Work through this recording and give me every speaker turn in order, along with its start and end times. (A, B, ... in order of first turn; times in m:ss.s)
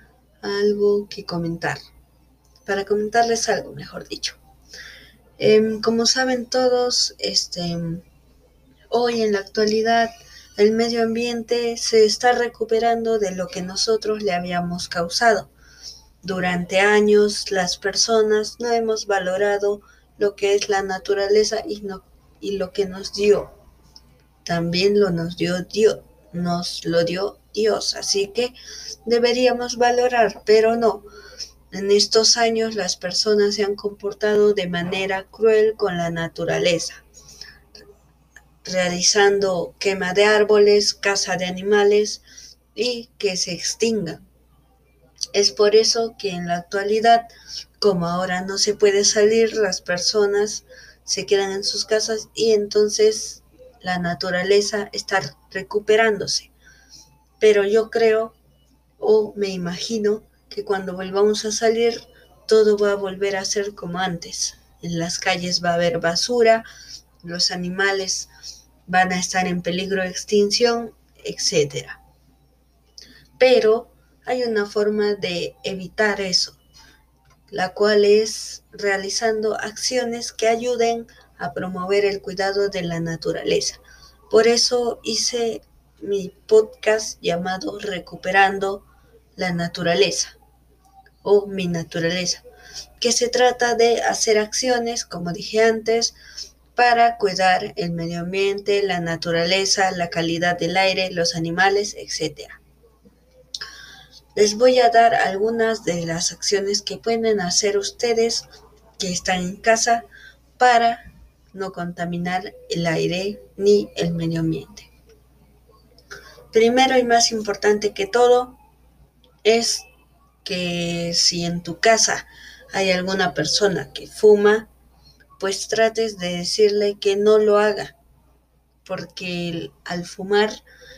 0:00.4-0:01.8 A
0:02.6-0:04.4 A
0:05.4-0:08.0 A
0:08.9-0:15.5 A
0:16.2-0:23.5 A
0:24.4-0:31.1 A
0:31.7-0:37.0 A
0:38.6-0:42.2 A
0:42.7-0:44.2 A
0:45.3-0:56.5 A
0:57.4-0:58.4 A
0:59.0-1:06.7 A
1:07.2-1:08.3 A
1:08.9-1:12.0 A
1:13.4-1:16.6 A
1:17.5-1:30.4 A
1:31.2-1:32.4 A
1:33.0-1:36.2 A
1:36.8-1:42.6 A
1:44.4-1:48.4 A
1:49.0-1:50.0 A
1:50.6-1:54.9 A
1:56.5-1:58.6 A
1:59.4-1:59.9 A
2:00.4-2:04.7 A
2:05.4-2:08.0 A
2:08.8-2:10.6 A